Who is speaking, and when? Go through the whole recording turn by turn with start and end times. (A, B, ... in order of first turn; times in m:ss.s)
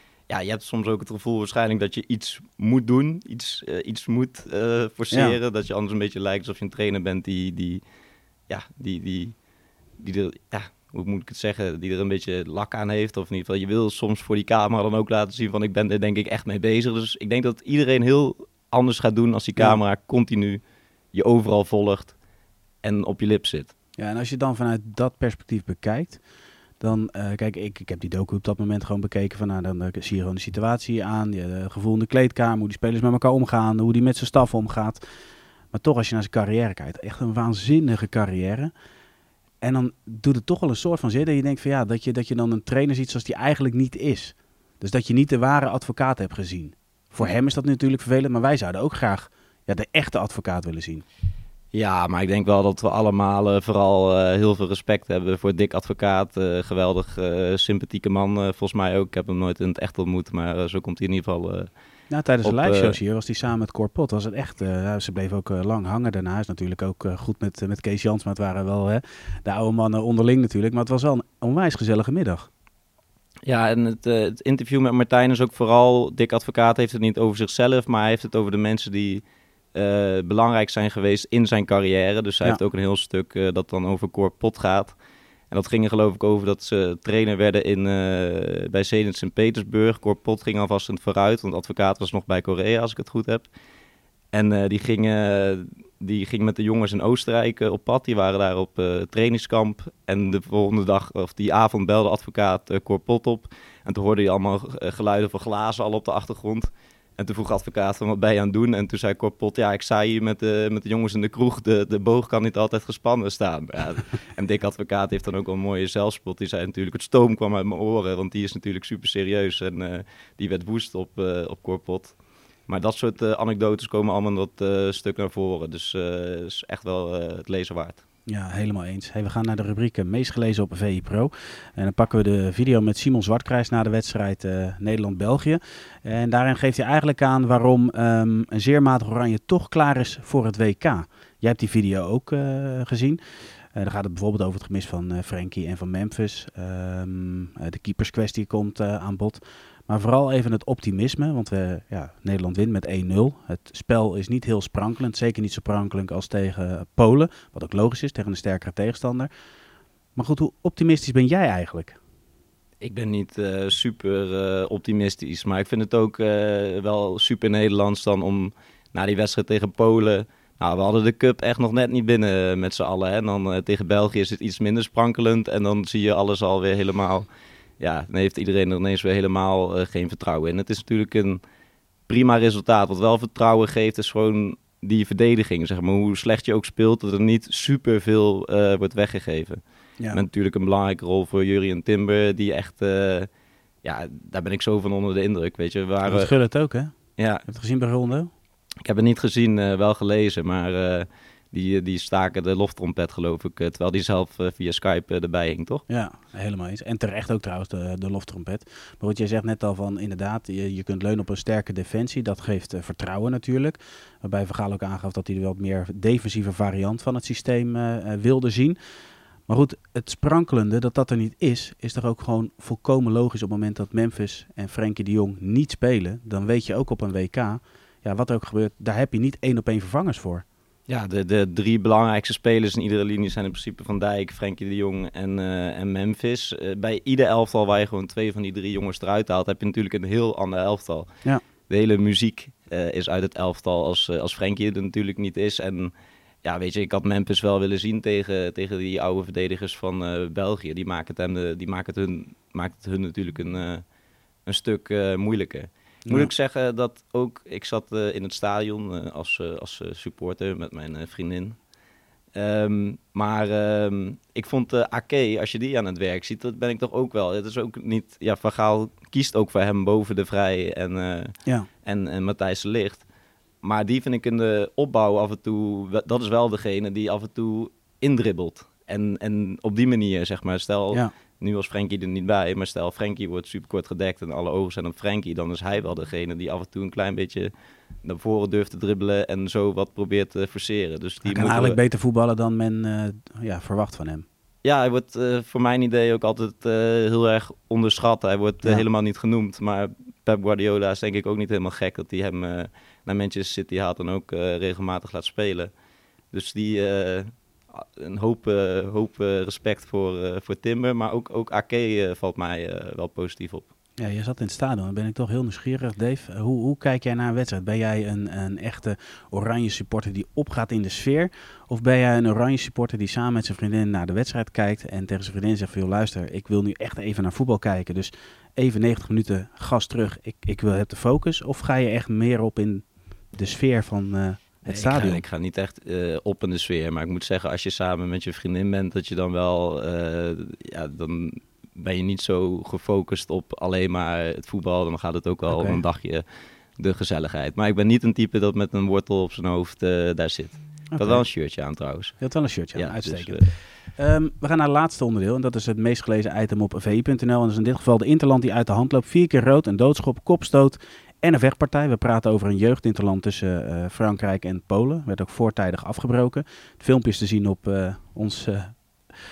0:00.3-0:07.8 A
0:05.1-0:05.4 B
0:08.5-0:09.3 A
0:10.0-0:20.6 A
0:21.1-0:22.1 A
0:22.8-0:23.7 A
0:24.0-0:26.2 B
0:26.8-0:35.0 B
0:35.7-0:38.7 B
0:39.6-0:51.0 B
0:51.7-1:01.7 A
1:02.1-1:12.5 B
1:02.4-1:03.0 A
1:13.4-1:19.2 A
1:19.7-1:25.0 A
1:25.5-1:33.5 A
1:34.3-2:02.2 A
2:02.7-2:08.0 A
2:08.2-2:39.3 B
2:40.1-2:42.0 B
2:42.8-2:57.3 A
2:57.8-3:01.4 A
3:02.1-3:13.3 A
3:13.8-3:16.3 A
3:16.0-3:16.9 B
3:17.2-3:17.4 A
3:17.4-3:18.3 B
3:18.8-3:25.8 A
3:25.9-3:38.8 B
3:39.5-3:50.4 B
3:50.9-4:01.1 A
4:01.7-4:05.9 A
4:06.4-4:13.8 A
4:14.4-4:21.6 A
4:16.0-4:16.3 B
4:22.3-4:33.0 A
4:33.6-4:47.5 A
4:48.0-4:51.8 A
4:51.2-4:54.2 B
4:54.6-5:05.7 A
5:06.3-5:13.7 A
5:14.0-5:35.2 B
5:34.7-5:46.2 A
5:45.5-5:45.8 B
5:46.8-5:53.5 A
5:50.9-5:51.3 B
5:52.2-6:08.8 B